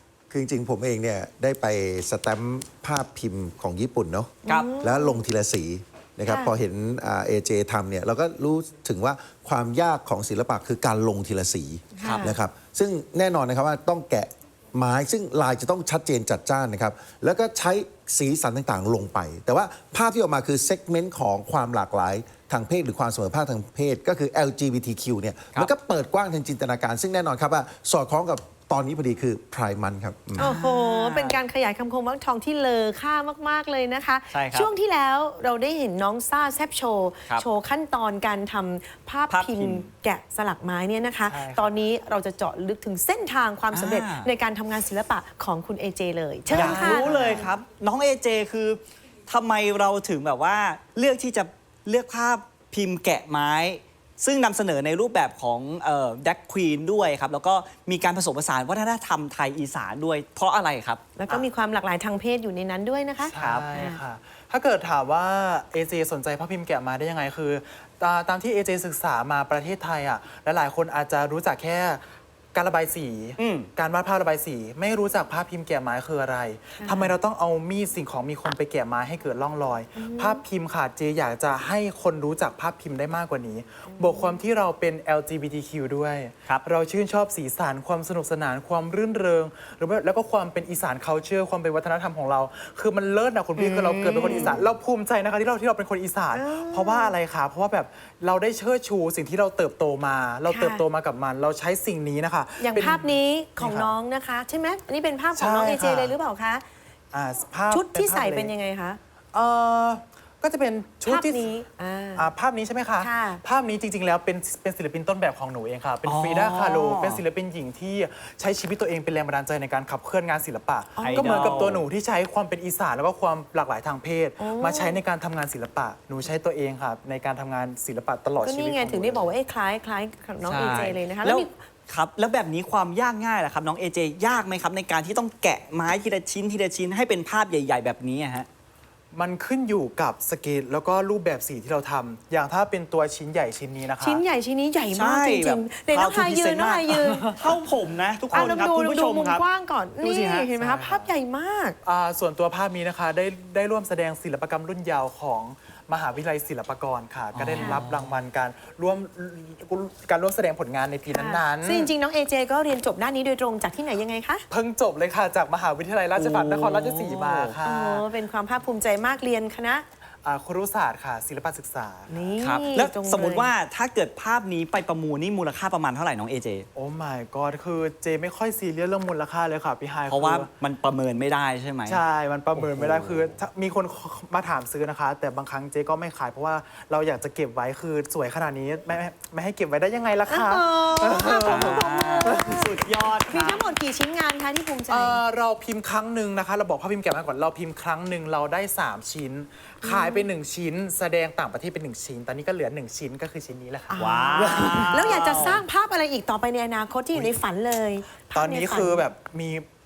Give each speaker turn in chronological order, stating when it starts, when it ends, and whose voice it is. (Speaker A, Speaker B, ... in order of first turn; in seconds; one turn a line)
Speaker A: 0.3-30.5
Speaker B: 4.4-5.2
Speaker B: 6.3-6.5
Speaker B: 11.9-12.3
Speaker C: 12.0-12.3
Speaker B: 30.4-47.2
Speaker D: 30.5-31.3
Speaker C: 34.3-34.7
Speaker C: 39.3-39.9
Speaker D: 41.3-41.7
Speaker C: 43.7-44.3
Speaker D: 46.5-47.5
Speaker C: 46.5-61.4
Speaker B: 61.2-64.0
Speaker D: 63.2-72.0
Speaker C: 63.4-63.6
Speaker D: 72.5-103.9
Speaker C: 73.4-73.7
Speaker B: 76.8-77.1
Speaker B: 80.0-80.4
Speaker B: 83.9-84.3
Speaker C: 93.6-94.6
Speaker B: 94.1-94.6
Speaker B: 96.3-97.2
Speaker B: 100.5-100.8
Speaker B: 102.6-106.6
Speaker D: 105.3-106.1
Speaker D: 107.1-108.5
Speaker B: 107.7-109.0
Speaker D: 109.3-111.5
Speaker B: 111.0-112.3
Speaker D: 112.2-129.3
Speaker B: 113.0-113.4
Speaker C: 116.0-117.2
Speaker B: 121.0-121.6
Speaker C: 121.0-121.8
Speaker B: 124.4-125.0
Speaker B: 128.4-131.5
Speaker C: 130.4-138.5
Speaker D: 139.1-144.2
Speaker B: 144.0-147.2
Speaker C: 144.9-149.4
Speaker B: 148.3-151.8
Speaker C: 150.0-150.4
Speaker D: 150.5-151.1
Speaker D: 151.8-161.9
Speaker C: 157.3-158.1
Speaker B: 157.5-157.8
Speaker B: 161.1-164.4
Speaker D: 164.5-168.0
Speaker C: 166.2-167.5
Speaker B: 167.6-169.8
Speaker D: 170.2-172.1
Speaker B: 172.1-173.5
Speaker C: 172.4-176.7
Speaker D: 176.8-180.5
Speaker C: 180.1-182.0
Speaker D: 181.9-192.8
Speaker C: 182.5-183.3
Speaker B: 190.3-192.7
Speaker C: 191.4-193.6
Speaker B: 193.3-195.2
Speaker D: 194.9-205.4
Speaker B: 199.8-200.3
Speaker B: 203.9-209.0
Speaker C: 204.0-205.6
Speaker D: 208.3-209.7